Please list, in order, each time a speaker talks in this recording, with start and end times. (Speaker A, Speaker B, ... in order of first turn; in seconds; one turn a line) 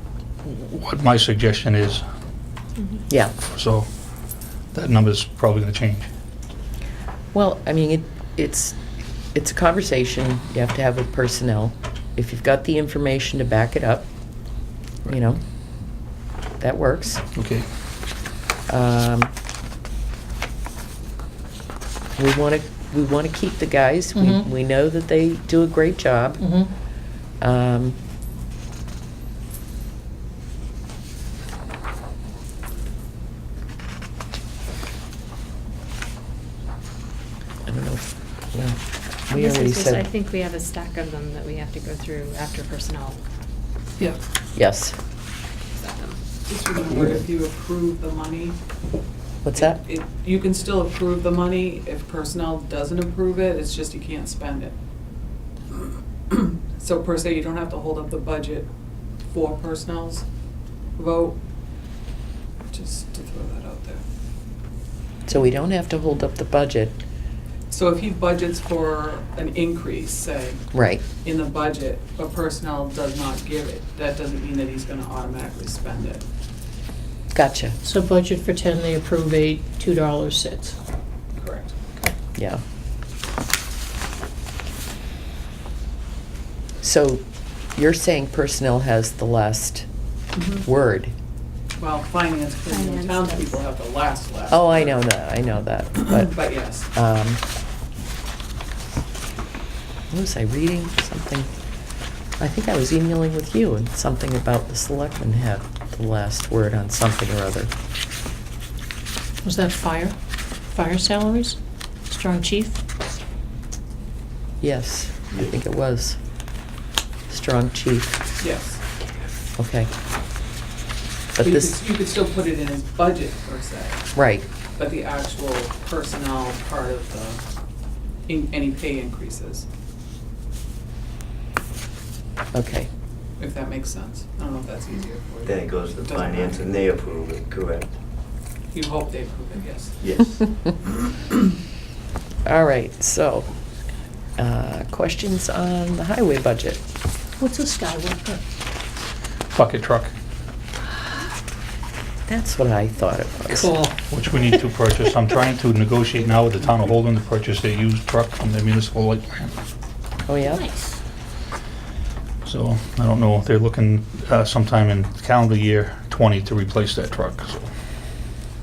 Speaker A: 0.4-2.0
Speaker B: 3.1-3.3
Speaker A: 3.4-3.9
Speaker A: 4.7-6.0
Speaker B: 7.3-8.8
Speaker B: 9.3-14.1
Speaker B: 15.1-15.4
Speaker B: 16.6-17.2
Speaker A: 17.3-17.6
Speaker B: 18.7-19.3
Speaker B: 22.2-26.6
Speaker C: 24.1-24.5
Speaker C: 26.4-26.7
Speaker B: 27.4-28.0
Speaker B: 37.7-40.0
Speaker D: 39.3-43.2
Speaker B: 44.5-45.0
Speaker D: 45.7-46.2
Speaker E: 46.4-48.6
Speaker B: 49.4-49.8
Speaker E: 49.5-54.7
Speaker E: 55.7-58.7
Speaker E: 59.3-60.2
Speaker E: 61.0-61.4
Speaker E: 62.7-64.0
Speaker B: 65.3-67.0
Speaker E: 67.7-70.6
Speaker B: 70.7-71.0
Speaker E: 71.2-76.2
Speaker B: 77.3-77.8
Speaker C: 77.8-80.8
Speaker E: 81.3-81.7
Speaker B: 82.3-82.6
Speaker B: 86.8-87.2
Speaker B: 87.8-89.9
Speaker E: 90.3-90.7
Speaker B: 90.6-91.1
Speaker E: 91.8-95.0
Speaker D: 92.7-93.6
Speaker B: 94.5-96.3
Speaker E: 96.0-96.9
Speaker B: 96.9-97.4
Speaker B: 100.1-101.5
Speaker B: 102.4-107.7
Speaker C: 109.4-110.2
Speaker C: 110.7-111.6
Speaker C: 112.1-112.8
Speaker B: 114.6-116.2
Speaker B: 117.3-118.2
Speaker E: 118.4-118.8
Speaker B: 119.6-119.9
Speaker B: 121.3-121.7
Speaker E: 121.4-124.0
Speaker B: 124.1-124.5
Speaker E: 124.8-127.4
Speaker E: 128.3-129.7
Speaker B: 132.5-132.9
Speaker E: 133.4-136.7
Speaker F: 135.4-137.9
Speaker E: 138.7-140.0
Speaker F: 140.0-140.3
Speaker B: 142.4-143.5
Speaker B: 144.4-146.8
Speaker C: 147.4-148.4
Speaker A: 149.5-150.1
Speaker B: 152.3-153.8
Speaker C: 153.5-154.0
Speaker A: 154.1-159.5
Speaker B: 160.3-160.6
Speaker C: 160.4-161.0
Speaker A: 162.4-167.7